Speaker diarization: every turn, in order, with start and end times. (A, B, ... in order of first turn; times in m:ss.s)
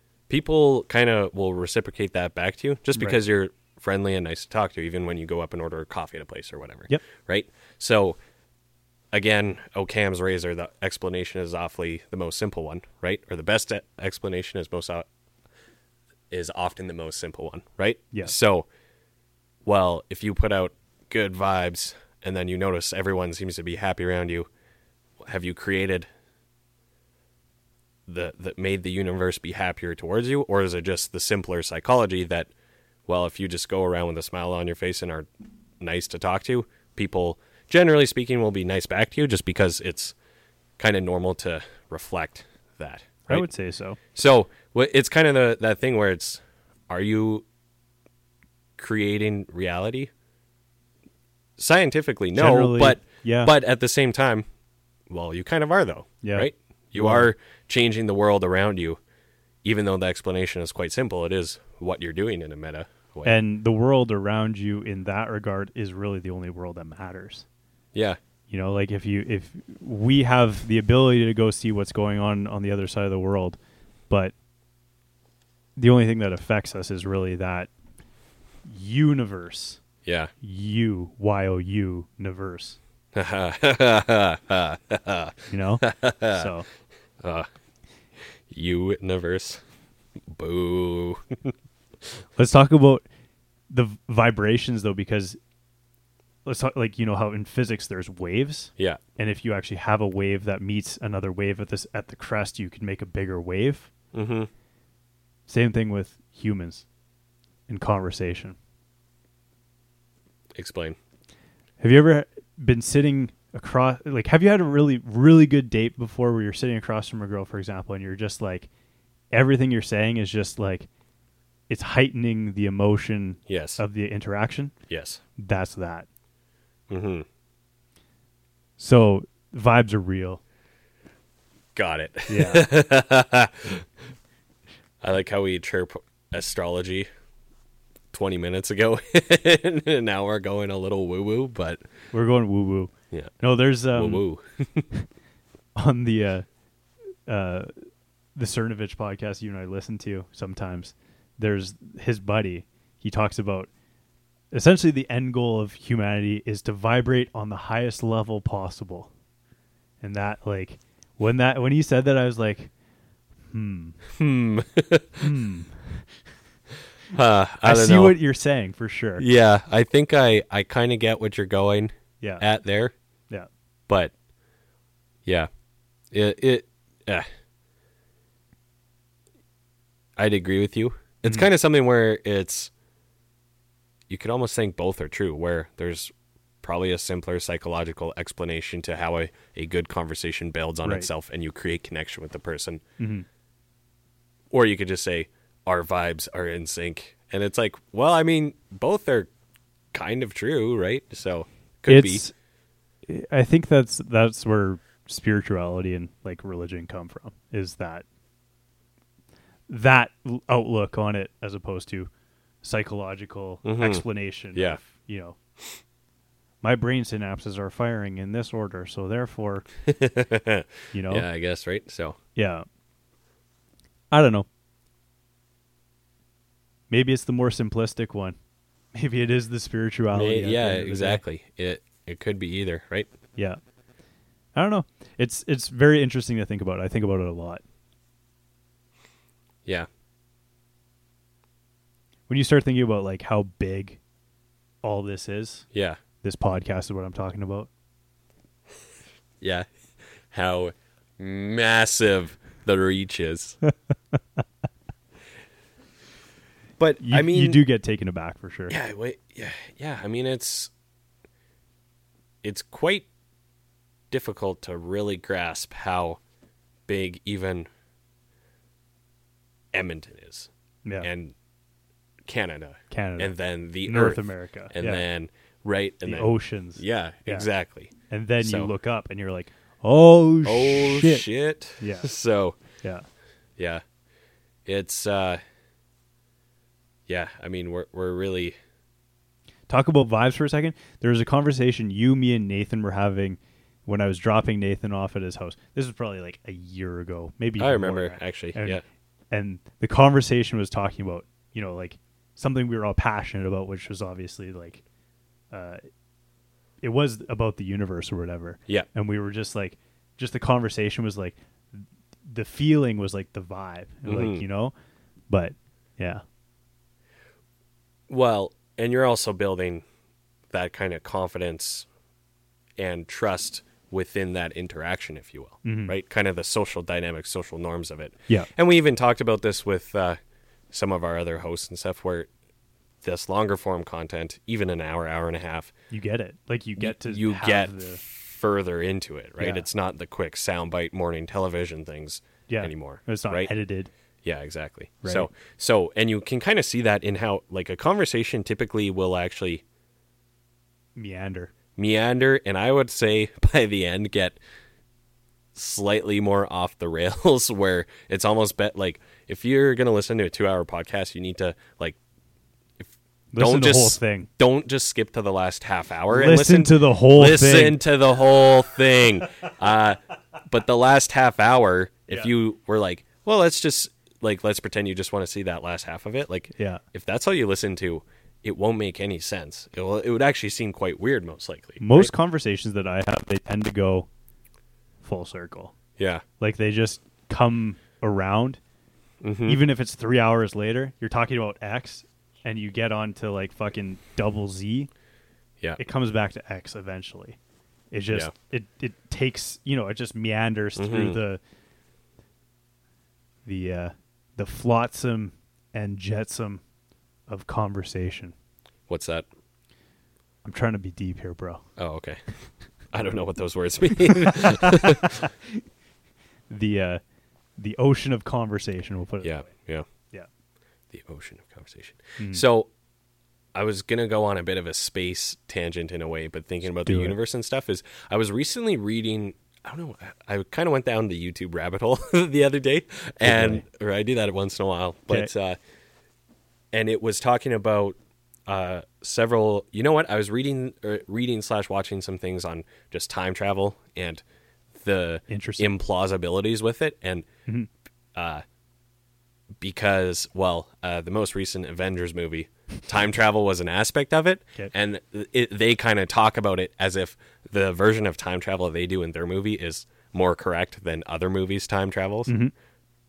0:00.3-0:08.2 A
0:09.1-0:15.1 A
0:16.3-0:18.7 A
0:19.6-0:24.5 A
0:25.2-0:26.1 A
0:28.1-0:32.5 A
0:33.1-0:35.3 A
0:35.8-0:40.1 A
0:40.8-0:43.4 A
0:43.3-0:44.0 B
0:44.1-0:47.4 A
0:48.8-0:50.1 A
0:51.6-0:54.4 A
0:52.3-0:53.5 B
0:55.1-0:59.0 A
0:56.2-0:57.3 B
0:59.6-1:03.3 A
1:03.2-1:07.4 B
1:07.9-1:08.2 A
1:08.5-1:13.6 B
1:15.8-1:17.7 B
1:18.6-1:19.8 B
1:20.0-1:20.3 A
1:20.4-1:22.8 B
1:23.1-1:26.5 A
1:25.5-1:26.7 B
1:27.2-1:27.5 A
1:28.5-1:29.6 A
1:30.3-1:31.5 A
1:32.4-1:33.0 B
1:33.7-1:35.4 B
1:36.4-1:43.9 B
1:44.1-1:44.5 A
1:45.5-1:46.8 B
1:47.7-1:48.6 B
1:50.5-1:51.0 A
1:51.8-1:58.7 B
1:59.3-2:00.9 B
2:01.7-2:04.7 B
2:03.5-2:03.8 A
2:04.9-2:05.2 A
2:05.4-2:06.1 B
2:06.9-2:07.2 A
2:08.8-2:10.4 B
2:11.7-2:13.8 A
2:12.3-2:12.7 B
2:15.0-2:17.1 A
2:18.1-2:21.8 A
2:22.1-2:24.2 B
2:23.9-2:24.9 A
2:25.8-2:26.4 B
2:27.2-2:33.7 B
2:34.5-2:39.1 B
2:40.0-2:42.7 B
2:43.5-2:44.0 B
2:44.1-2:45.3 A
2:45.2-2:46.0 B
2:47.1-2:48.2 A
2:47.6-2:49.2 B
2:49.2-2:52.9 A
2:56.1-2:57.2 A
3:00.2-3:02.7 A
3:04.1-3:12.8 A
3:13.0-3:13.2 B
3:14.5-3:19.3 A
3:19.9-3:22.2 A
3:21.9-3:22.3 B
3:23.0-3:28.0 B
3:29.7-3:32.1 B
3:32.6-3:35.4 B
3:33.6-3:34.0 A
3:36.6-3:39.6 B
3:39.9-3:42.2 A
3:40.9-3:41.3 B
3:42.4-3:42.6 B
3:44.1-3:44.5 B
3:46.9-3:48.4 B
3:48.9-3:51.2 B
3:50.1-3:53.1 A
3:54.5-3:57.6 B
4:02.3-4:04.0 B
4:04.8-4:05.6 B
4:05.7-4:06.0 A
4:06.2-4:07.7 B
4:09.4-4:09.7 A
4:10.3-4:13.6 A
4:16.8-4:17.6 A
4:17.0-4:18.7 B
4:18.7-4:20.7 A
4:22.4-4:23.1 A
4:24.1-4:26.2 A
4:26.9-4:27.7 A
4:29.7-4:30.5 A
4:31.0-4:31.3 A
4:32.2-4:38.7 A
4:32.9-4:33.3 B
4:33.8-4:35.0 B
4:36.0-4:37.5 B
4:38.1-4:41.2 B
4:40.4-4:42.6 A
4:41.8-4:42.1 B
4:43.6-4:43.8 A
4:44.6-4:45.4 A
4:47.1-4:48.6 A
4:49.7-5:04.8 B
4:57.6-4:58.8 A
5:05.5-5:05.8 B
5:06.8-5:14.7 B
5:14.0-5:14.4 A
5:15.3-5:16.2 B
5:18.1-5:19.8 A
5:20.5-5:21.9 A
5:22.8-5:30.2 A
5:25.6-5:25.9 B
5:30.7-5:32.3 A
5:33.0-5:35.7 A
5:35.9-5:38.0 B
5:36.8-5:43.5 A
5:39.4-5:39.6 B
5:42.5-5:43.9 B
5:44.2-5:49.6 A
5:45.0-5:45.3 B
5:51.0-5:51.5 B
5:51.8-5:54.4 A
5:55.5-6:02.0 A
6:02.8-6:22.1 A
6:03.3-6:04.3 B
6:06.1-6:07.8 B
6:16.6-6:16.8 B
6:21.8-6:24.1 B
6:25.0-6:25.7 B
6:26.0-6:26.2 A
6:26.4-6:28.6 B
6:29.2-6:29.6 A
6:29.4-6:34.9 B
6:35.8-6:37.4 B
6:37.9-6:41.4 B
6:40.8-6:41.2 A
6:43.4-6:46.6 B
6:47.3-6:48.3 B
6:48.9-6:49.3 A
6:50.4-6:51.6 B
6:51.8-6:52.3 A
6:52.9-6:55.2 A
6:54.2-6:55.5 B
6:56.5-6:57.0 B
6:57.6-6:59.5 B
6:59.2-6:59.9 A
7:00.9-7:02.7 A
7:03.5-7:15.6 A
7:06.8-7:07.2 B
7:13.2-7:13.6 B
7:16.7-7:24.2 A
7:24.8-7:27.2 A
7:25.3-7:25.7 B
7:28.1-7:28.4 A
7:29.6-7:42.3 A
7:42.3-7:42.5 B